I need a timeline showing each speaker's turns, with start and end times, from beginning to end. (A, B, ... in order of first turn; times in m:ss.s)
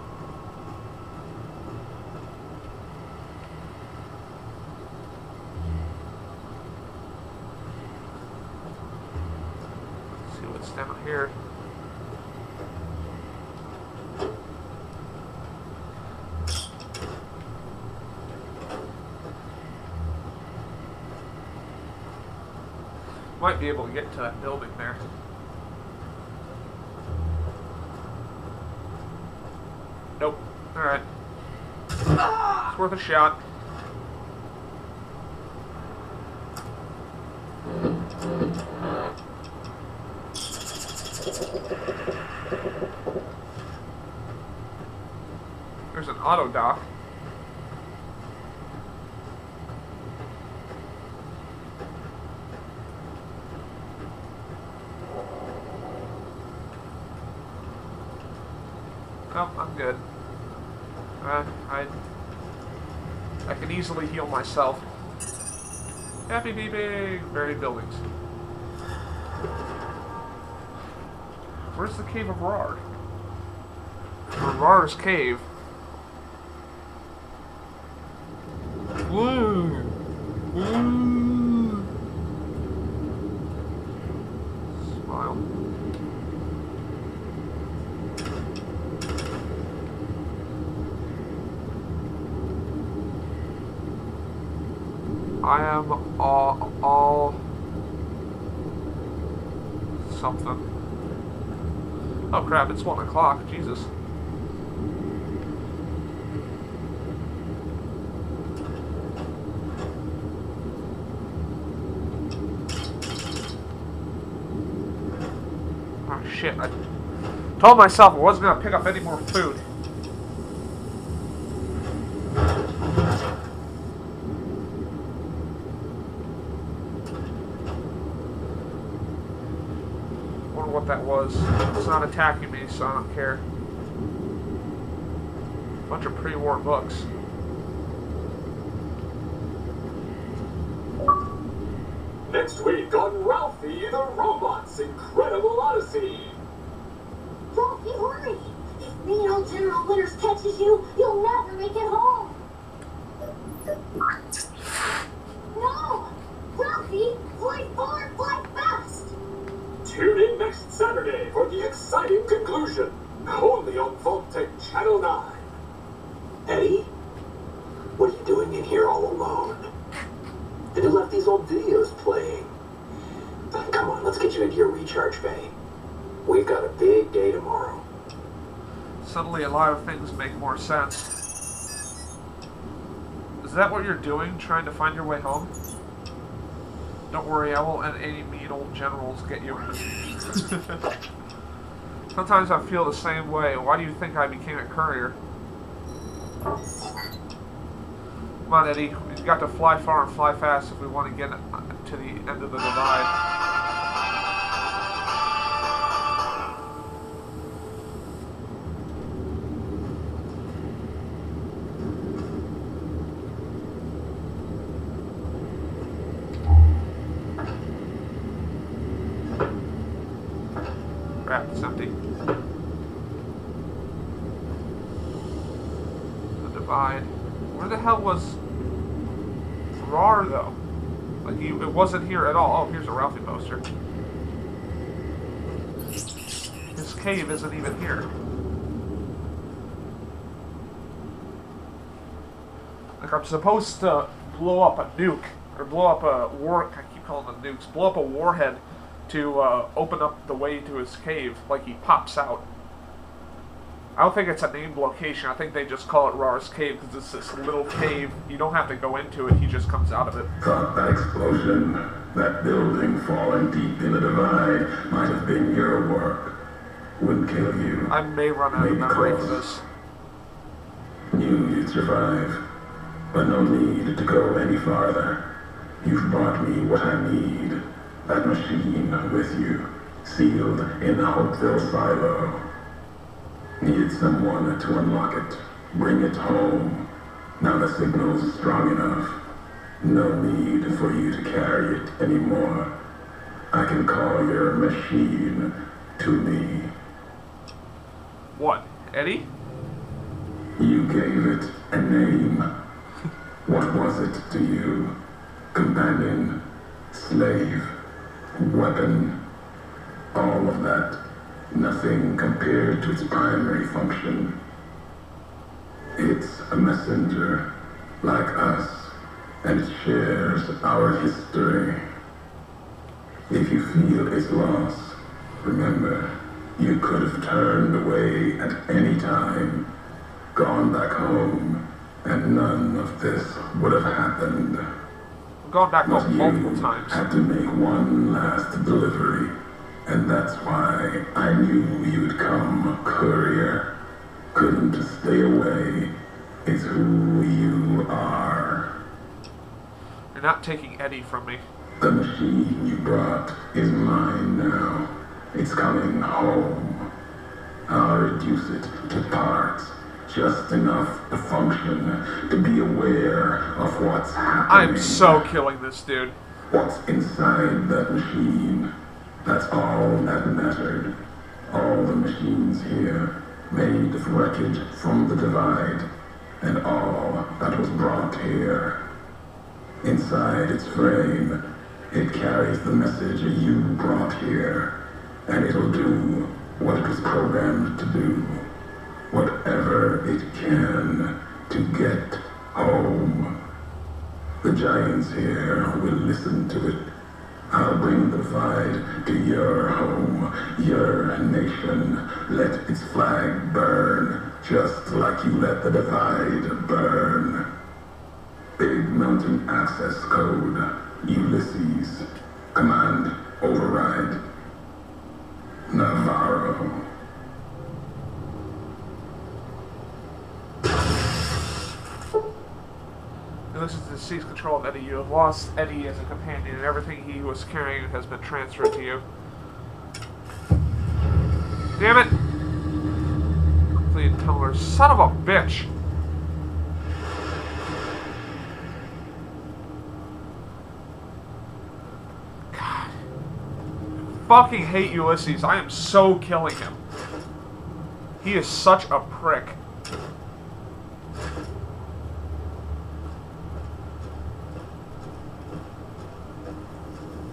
0:10.2-0:11.3 A
0:23.4-0:25.0 A
0:30.2-0:31.0 A
0:32.5-0:33.4 A
0:45.9-0:46.8 A
0:59.3-1:00.0 A
1:01.2-1:01.9 A
1:03.4-1:04.8 A
1:06.3-1:08.0 A
1:11.7-1:12.8 A
1:14.4-1:15.4 A
1:19.1-1:19.9 A
1:20.5-1:21.8 A
1:24.8-1:25.4 A
1:35.4-1:37.4 A
1:40.0-1:40.6 A
1:42.3-1:43.9 A
1:56.0-1:56.7 A
1:57.6-1:59.6 A
2:10.5-2:13.4 A
2:15.9-2:17.1 A
2:22.3-2:26.4 B
2:22.9-2:25.2 C
2:27.5-2:32.4 D
2:35.5-2:39.1 D
2:39.8-2:45.3 C
2:39.9-2:45.4 B
2:46.5-2:46.9 C
2:48.0-2:49.6 C
2:50.7-2:52.5 C
2:50.8-2:52.4 B
2:53.5-2:55.5 B
2:53.6-2:55.5 C
2:56.2-2:57.8 C
2:56.3-2:57.6 B
2:59.0-3:01.1 A
3:03.4-3:05.5 A
3:07.1-3:10.9 A
3:12.1-3:15.2 A
3:18.5-3:23.1 A
3:41.2-3:41.9 A
3:46.4-3:48.4 A
3:49.8-3:50.6 A
3:51.2-3:53.6 A
3:56.7-3:58.1 A
4:03.0-4:12.4 A
4:14.0-4:20.3 A
4:20.4-4:26.4 E
4:27.0-4:27.9 E
4:27.9-4:29.6 A
4:28.5-4:29.4 E
4:31.1-4:32.4 E
4:33.1-4:35.2 E
4:35.8-4:42.4 E
4:43.6-4:46.8 E
4:47.4-4:49.2 E
4:49.8-4:52.7 E
4:53.5-4:56.7 E
4:58.4-4:59.3 A
5:00.6-5:02.5 E
5:03.4-5:04.9 E
5:05.5-5:06.4 E
5:06.9-5:07.7 E
5:08.4-5:09.2 E
5:10.1-5:11.0 E
5:11.5-5:14.4 E
5:16.0-5:17.5 E
5:18.0-5:21.8 E
5:23.3-5:29.7 E
5:30.3-5:34.7 E
5:35.4-5:37.0 A
5:35.8-5:39.3 E
5:39.8-5:43.7 E
5:44.3-5:45.9 E
5:46.4-5:48.7 E
5:50.1-5:51.4 A
5:51.8-5:56.9 E
5:57.7-6:05.3 E
6:04.5-6:06.2 A
6:06.5-6:08.7 E
6:09.2-6:10.9 E
6:11.5-6:15.8 E
6:16.4-6:18.8 E
6:19.8-6:21.4 E
6:21.9-6:24.7 E
6:25.3-6:28.5 E
6:29.1-6:33.3 E
6:34.4-6:36.8 E
6:37.5-6:47.4 E
6:48.6-6:54.2 E
6:55.7-6:56.8 E
7:03.5-7:09.0 A
7:11.8-7:12.1 A
7:13.8-7:15.7 A
7:22.5-7:22.9 A
7:24.2-7:26.8 A
7:28.2-7:29.6 A